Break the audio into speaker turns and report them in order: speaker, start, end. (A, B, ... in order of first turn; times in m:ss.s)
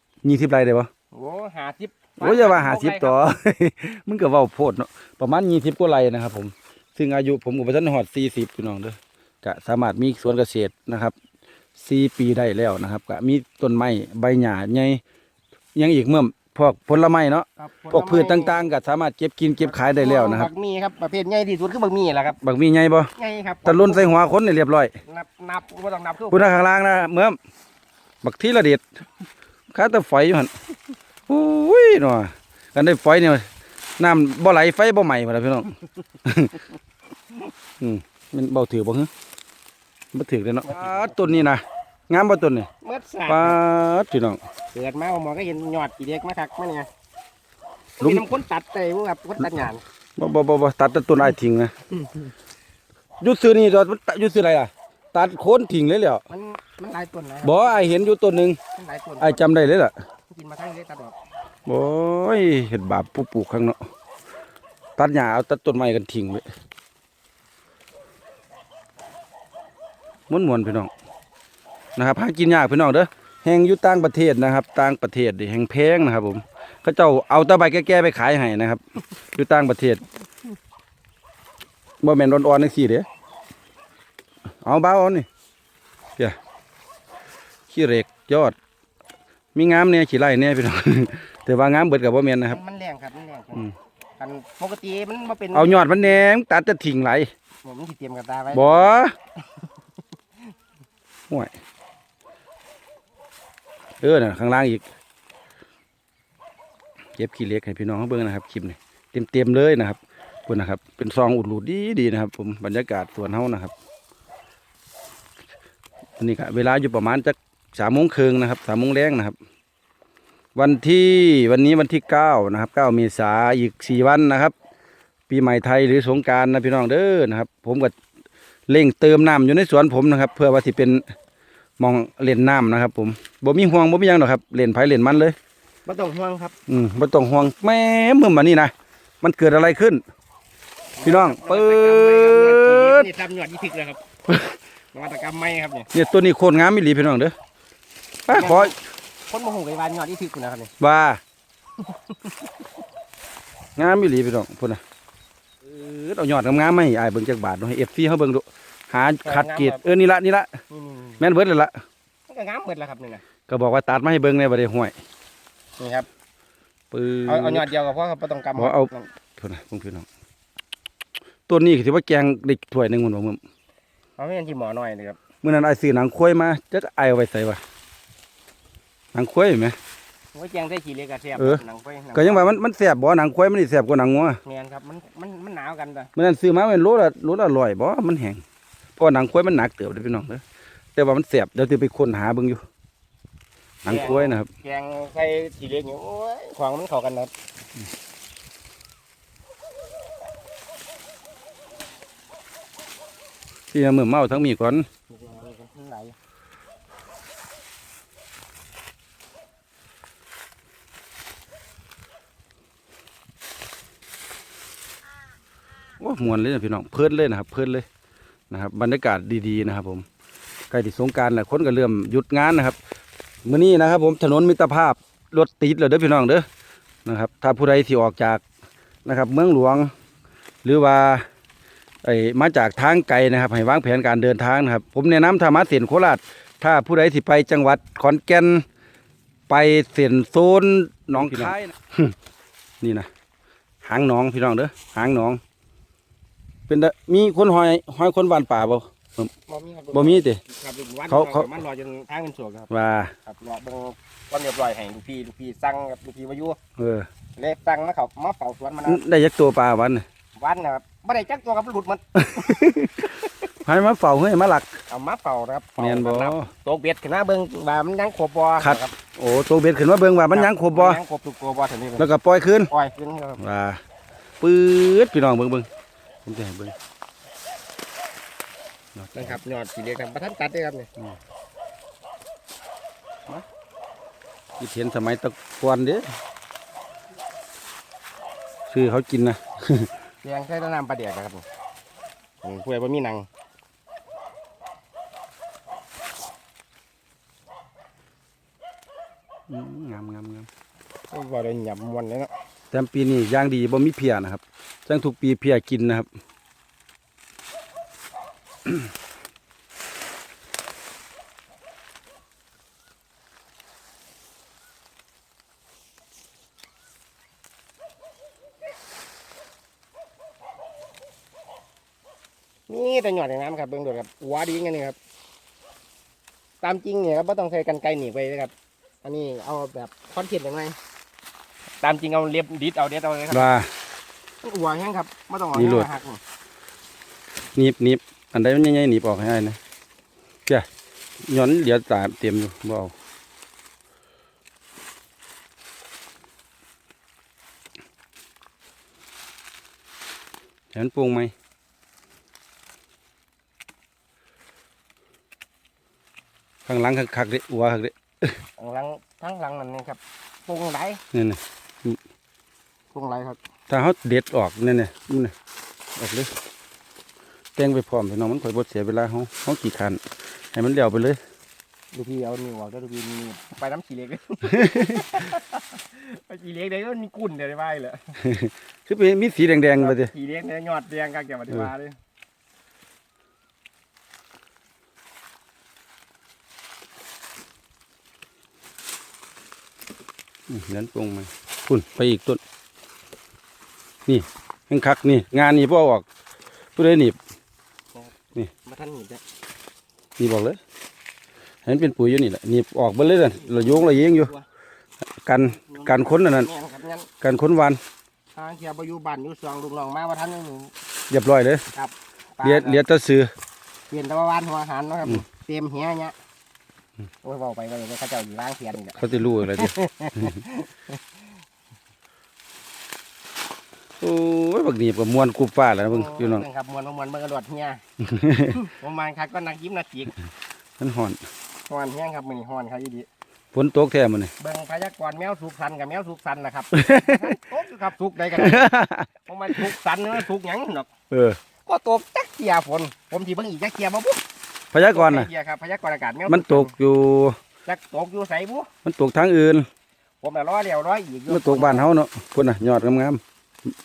0:00.2-0:00.9 A
0:01.1-0:03.2 B
0:02.2-0:11.1 A
0:11.8-0:15.0 A
0:15.8-0:20.5 A
0:17.6-0:18.6 B
0:19.6-0:22.4 B
0:22.4-0:23.1 A
0:23.2-0:24.1 B
0:23.6-0:24.9 A
0:25.1-0:26.6 B
0:26.3-0:27.4 A
0:28.2-0:28.8 A
0:29.7-0:30.5 A
0:31.3-0:33.5 A
0:34.0-0:36.6 A
0:37.8-0:39.1 A
0:40.1-0:42.7 A
0:40.6-0:41.2 B
0:42.8-0:43.6 B
0:43.3-0:44.4 A
0:44.7-0:46.9 B
0:48.0-0:49.8 B
0:48.0-0:48.2 A
0:50.2-0:51.7 A
0:53.2-0:56.2 A
0:56.3-0:57.8 B
0:57.4-0:58.6 A
0:58.8-0:59.5 B
0:59.2-0:59.9 A
1:00.3-1:01.2 B
1:01.7-1:03.8 A
1:05.0-1:06.4 A
1:10.3-1:10.9 A
1:12.0-1:20.0 A
1:22.0-1:23.1 A
1:24.6-1:25.3 A
1:27.7-1:28.6 A
1:29.6-1:32.6 A
1:32.5-1:36.2 B
1:35.5-1:37.3 A
1:37.6-1:38.9 B
1:38.5-1:39.1 A
1:39.5-1:40.0 B
1:44.0-1:44.8 A
1:47.2-1:53.7 A
1:56.2-1:59.4 A
2:00.6-2:04.5 A
2:05.3-2:08.0 A
2:08.7-2:11.0 A
2:11.8-2:15.4 A
2:15.8-2:16.6 B
2:16.7-2:20.0 A
2:21.0-2:24.0 B
2:21.0-2:23.1 A
2:24.3-2:24.6 A
2:24.9-2:25.9 B
2:25.9-2:27.4 A
2:28.2-2:28.8 A
2:28.3-2:28.8 B
2:29.3-2:30.7 B
2:30.8-2:31.2 A
2:31.8-2:32.5 B
2:33.8-2:34.8 A
2:35.6-2:40.6 A
2:39.2-2:39.8 B
2:40.7-2:41.2 B
2:41.2-2:41.8 A
2:42.3-2:43.2 B
2:43.5-2:45.0 A
2:45.8-2:46.1 B
2:46.9-2:47.7 A
2:47.3-2:49.1 B
2:48.6-2:50.1 A
2:51.5-2:53.4 A
2:54.2-2:55.2 B
2:55.4-2:57.6 A
2:59.1-2:59.8 A
3:00.3-3:02.6 B
3:01.4-3:01.6 A
3:02.1-3:04.4 A
3:04.4-3:06.1 B
3:06.2-3:08.4 A
3:09.0-3:10.4 A
3:11.0-3:12.6 A
3:13.8-3:14.5 A
3:13.9-3:17.3 B
3:23.7-3:24.9 A
3:25.1-3:26.2 B
3:36.0-3:37.9 A
3:38.5-3:40.1 A
3:40.7-3:42.8 A
3:43.4-3:46.5 A
3:47.0-3:48.4 A
3:49.0-3:49.9 A
3:50.6-3:51.2 A
3:52.0-3:58.6 A
3:59.5-4:02.1 A
4:01.2-4:01.5 B
4:02.8-4:03.1 A
4:03.8-4:05.4 A
4:06.7-4:09.3 A
4:09.5-4:12.7 B
4:09.9-4:10.4 A
4:11.1-4:11.6 A
4:12.7-4:13.1 A
4:13.2-4:16.6 B
4:16.8-4:17.1 A
4:17.4-4:19.0 B
4:18.8-4:20.0 A
4:20.4-4:23.2 B
4:22.1-4:24.8 A
4:24.9-4:28.9 B
4:25.8-4:26.5 A
4:28.6-4:31.0 A
4:30.3-4:32.1 B
4:32.0-4:32.7 A
4:32.7-4:33.4 B
4:33.4-4:33.8 A
4:34.4-4:35.7 A
4:36.2-4:36.8 A
4:39.0-4:39.4 A
4:39.1-4:40.9 B
4:44.6-4:46.1 A
4:48.7-4:49.9 A
4:50.2-4:51.4 B
4:52.4-4:53.3 B
4:59.5-5:00.5 A
5:01.1-5:02.3 B
5:02.7-5:06.1 A
5:22.7-5:25.0 B
5:26.6-5:30.8 B
5:31.8-5:33.5 B
5:33.3-5:33.7 A
5:34.4-5:36.2 B
5:35.5-5:35.9 A
5:37.6-5:39.6 A
5:41.2-5:42.9 A
5:50.7-5:51.3 A
5:56.7-5:58.4 A
5:58.6-6:01.0 B
6:01.1-6:02.0 A
6:02.9-6:03.4 B
6:03.7-6:05.3 A
6:06.0-6:06.3 A
6:07.6-6:10.0 A
6:10.5-6:11.2 A
6:11.9-6:18.2 B
6:14.5-6:15.2 A
6:18.2-6:20.1 A
6:19.8-6:22.0 B
6:30.5-6:32.4 A
6:34.1-6:36.0 A
6:36.8-6:37.2 A
6:37.9-6:39.2 B
6:40.2-6:40.6 A
6:41.6-6:44.3 A
6:43.3-6:44.5 B
6:45.2-6:46.5 A
6:45.6-6:47.1 B
6:47.2-6:47.8 A
6:48.3-6:50.7 B
6:51.1-6:51.6 A
6:51.7-6:52.8 B
6:52.4-6:53.3 A
6:53.9-6:56.2 B
6:57.2-7:01.0 B
6:59.0-7:00.3 A
7:04.0-7:06.5 A
7:05.9-7:07.8 B
7:08.0-7:08.6 A
7:08.5-7:10.2 B
7:10.8-7:11.2 A
7:11.7-7:13.1 B
7:13.5-7:14.3 A
7:14.4-7:18.7 B
7:16.7-7:17.4 A
7:18.3-7:19.7 A
7:19.3-7:20.9 B
7:21.1-7:21.4 A
7:21.7-7:24.2 B
7:24.7-7:25.3 A
7:24.8-7:26.7 B
7:26.3-7:27.4 A
7:27.6-7:28.7 B
7:28.8-7:29.7 A
7:30.2-7:31.9 B
7:31.3-7:33.2 A